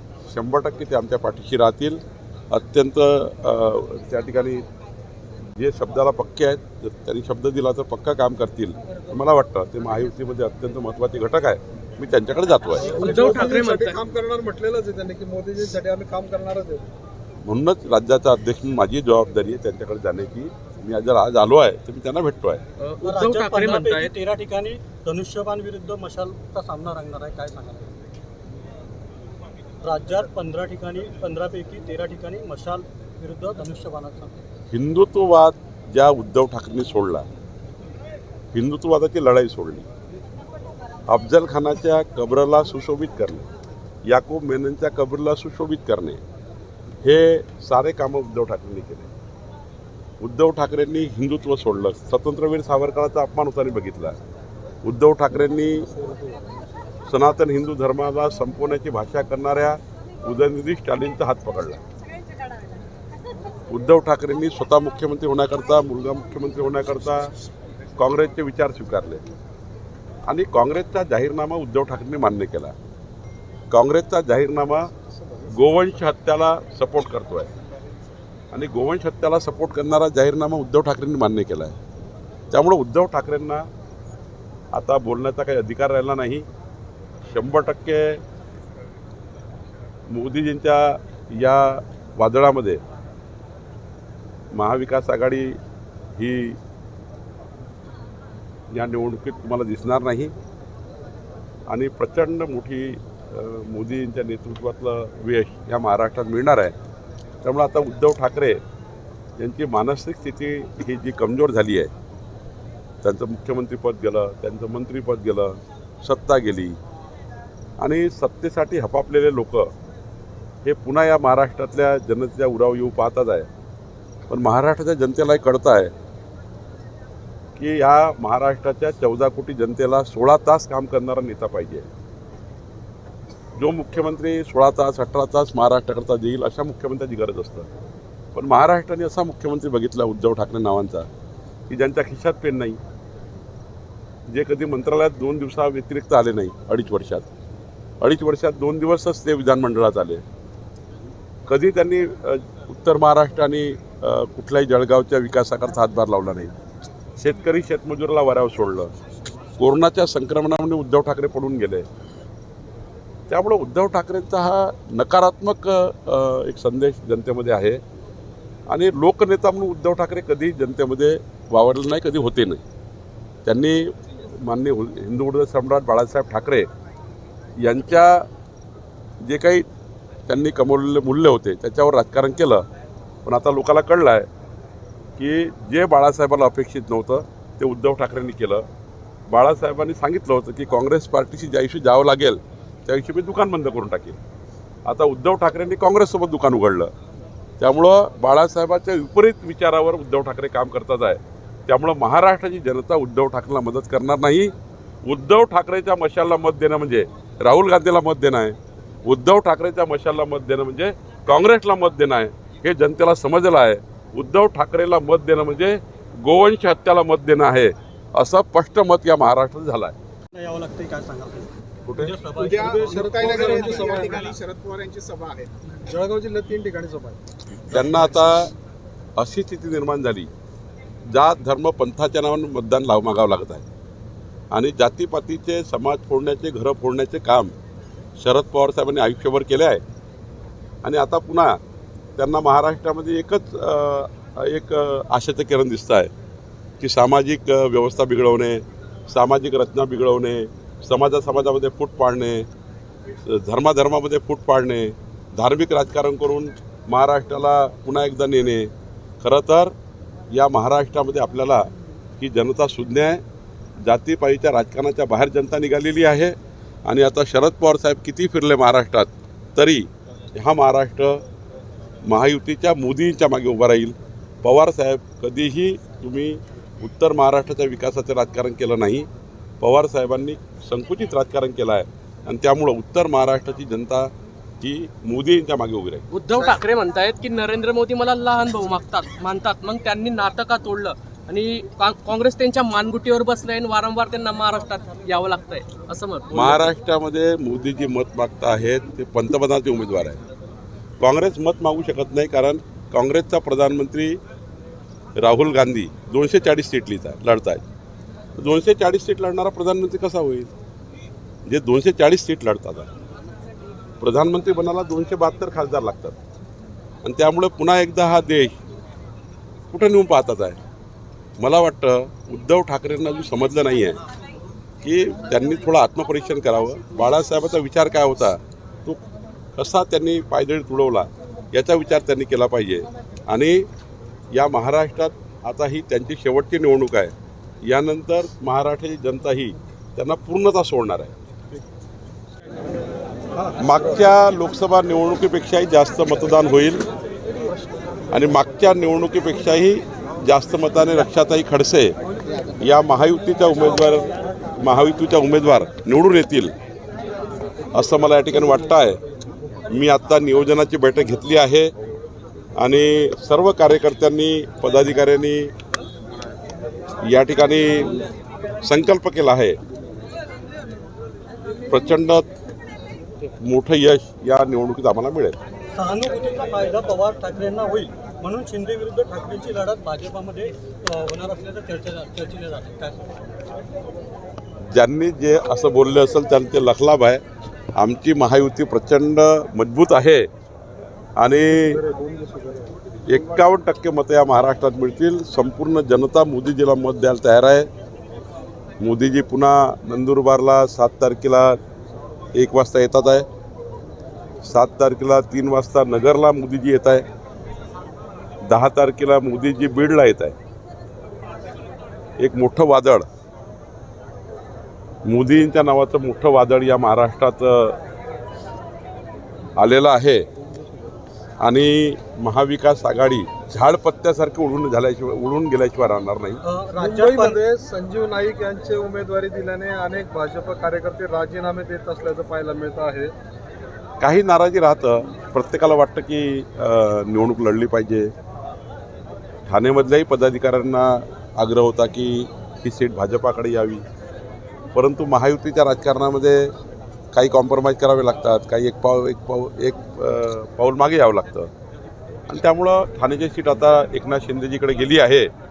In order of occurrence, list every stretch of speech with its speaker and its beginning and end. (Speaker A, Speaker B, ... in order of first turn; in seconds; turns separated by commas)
Speaker A: 0.3-4.7, Speaker A: 5.5-13.0, Speaker B: 12.8-14.0, Speaker C: 12.8-16.9, Speaker D: 13.1-13.5, Speaker A: 17.4-22.6, Speaker B: 22.8-24.1, Speaker D: 23.0-28.0, Speaker D: 29.8-34.4, Speaker A: 34.7-37.3, Speaker A: 38.5-39.9, Speaker A: 41.1-43.5, Speaker A: 44.1-46.2, Speaker A: 47.0-49.1, Speaker A: 50.2-54.2, Speaker A: 54.8-55.9, Speaker A: 57.1-61.8, Speaker A: 63.7-67.3, Speaker A: 68.0-69.2, Speaker A: 70.3-72.8, Speaker A: 73.7-74.9, Speaker A: 75.5-77.5, Speaker A: 78.5-81.8, Speaker A: 82.5-83.7, Speaker A: 84.7-86.5, Speaker A: 87.3-88.2, Speaker A: 90.1-92.8, Speaker A: 94.5-95.6, Speaker A: 96.2-96.6, Speaker A: 98.7-100.3, Speaker A: 101.7-106.8, Speaker A: 107.4-108.6, Speaker A: 109.4-111.9, Speaker A: 113.0-116.8, Speaker A: 117.8-119.7, Speaker A: 120.7-123.5, Speaker A: 124.3-125.9, Speaker A: 127.6-131.9, Speaker A: 133.6-137.7, Speaker A: 138.3-141.1, Speaker A: 141.7-142.8, Speaker A: 144.3-147.3, Speaker A: 148.0-150.2, Speaker A: 151.5-156.5, Speaker A: 157.2-158.9, Speaker A: 159.6-161.9, Speaker A: 163.3-167.8, Speaker A: 168.7-172.6, Speaker A: 173.5-176.7, Speaker A: 177.6-178.3, Speaker A: 179.2-179.7, Speaker A: 180.3-182.7, Speaker A: 183.2-184.3, Speaker A: 185.2-188.7, Speaker A: 189.3-194.2, Speaker A: 194.9-196.9, Speaker A: 197.6-204.5, Speaker A: 205.1-219.9, Speaker D: 220.3-224.3, Speaker A: 221.8-222.1, Speaker E: 222.3-225.5, Speaker C: 222.6-224.3, Speaker C: 225.8-227.2, Speaker A: 227.6-228.5, Speaker A: 229.2-230.3, Speaker A: 231.1-233.7, Speaker A: 234.5-237.5, Speaker A: 238.2-239.8, Speaker A: 240.8-241.6, Speaker A: 242.2-246.1, Speaker A: 246.8-252.5, Speaker A: 253.3-259.7, Speaker A: 260.3-263.2, Speaker A: 263.8-271.2, Speaker A: 272.1-279.1, Speaker A: 279.6-286.1, Speaker B: 286.1-296.7, Speaker A: 296.3-300.2, Speaker A: 301.0-304.2, Speaker A: 305.2-307.6, Speaker A: 308.4-310.5, Speaker A: 311.5-312.9, Speaker A: 314.0-316.2, Speaker A: 317.0-318.6, Speaker A: 319.7-320.6, Speaker A: 321.4-324.0, Speaker A: 324.8-329.0, Speaker A: 329.6-333.7, Speaker A: 334.3-341.1, Speaker A: 343.6-346.8, Speaker A: 348.1-351.9, Speaker A: 352.6-356.5, Speaker A: 357.7-359.0, Speaker A: 359.7-361.7, Speaker A: 362.6-365.5, Speaker A: 367.0-368.1, Speaker A: 368.6-369.6, Speaker A: 371.7-372.3, Speaker A: 373.4-375.4, Speaker D: 375.7-383.1, Speaker A: 384.7-387.2, Speaker A: 387.8-390.3, Speaker A: 391.2-391.8, Speaker C: 391.5-392.8, Speaker A: 393.1-397.7, Speaker A: 398.8-401.6, Speaker A: 402.4-403.3, Speaker A: 404.4-407.1, Speaker A: 408.4-410.4, Speaker A: 412.2-413.1, Speaker A: 415.1-417.8, Speaker A: 419.6-420.3, Speaker A: 421.4-426.4, Speaker D: 426.4-427.4, Speaker C: 426.8-433.1, Speaker A: 434.0-438.1, Speaker A: 439.5-443.8, Speaker A: 444.8-446.6, Speaker A: 447.1-451.5, Speaker A: 452.3-455.3